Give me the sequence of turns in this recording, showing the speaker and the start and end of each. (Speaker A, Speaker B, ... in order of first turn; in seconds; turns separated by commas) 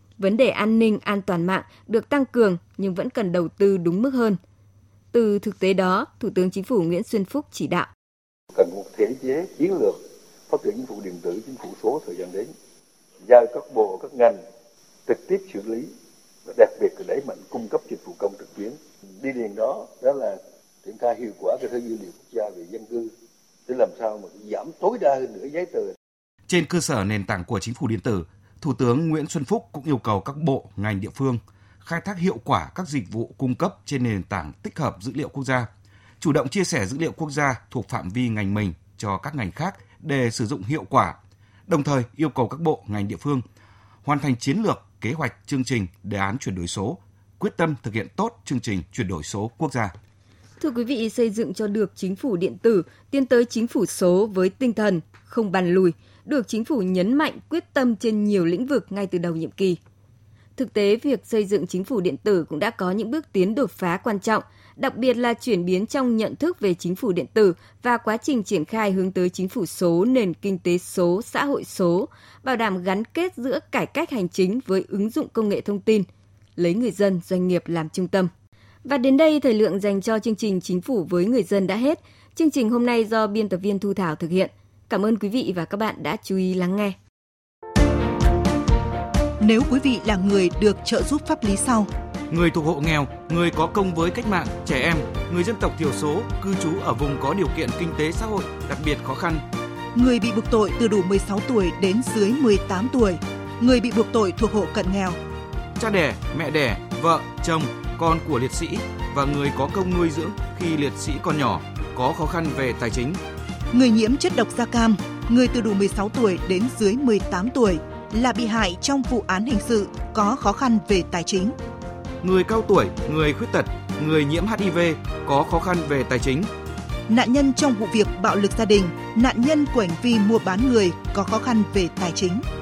Speaker A: 0.2-4.4, Speaker A: 5.1-7.9, Speaker B: 8.6-9.9, Speaker B: 10.5-12.4, Speaker B: 13.3-14.3, Speaker B: 15.1-15.8, Speaker B: 16.5-20.3, Speaker B: 20.9-23.1, Speaker B: 23.7-25.9, Speaker C: 26.5-35.7, Speaker C: 36.2-41.2, Speaker C: 41.7-43.4, Speaker C: 44.0-49.9, Speaker A: 50.6-59.8, Speaker A: 60.6-78.3, Speaker A: 78.8-87.0, Speaker D: 89.4-91.9, Speaker C: 92.3-99.4, Speaker D: 100.0-105.2, Speaker C: 105.8-113.2, Speaker D: 113.7-121.6, Speaker C: 122.2-126.5, Speaker D: 127.1-132.5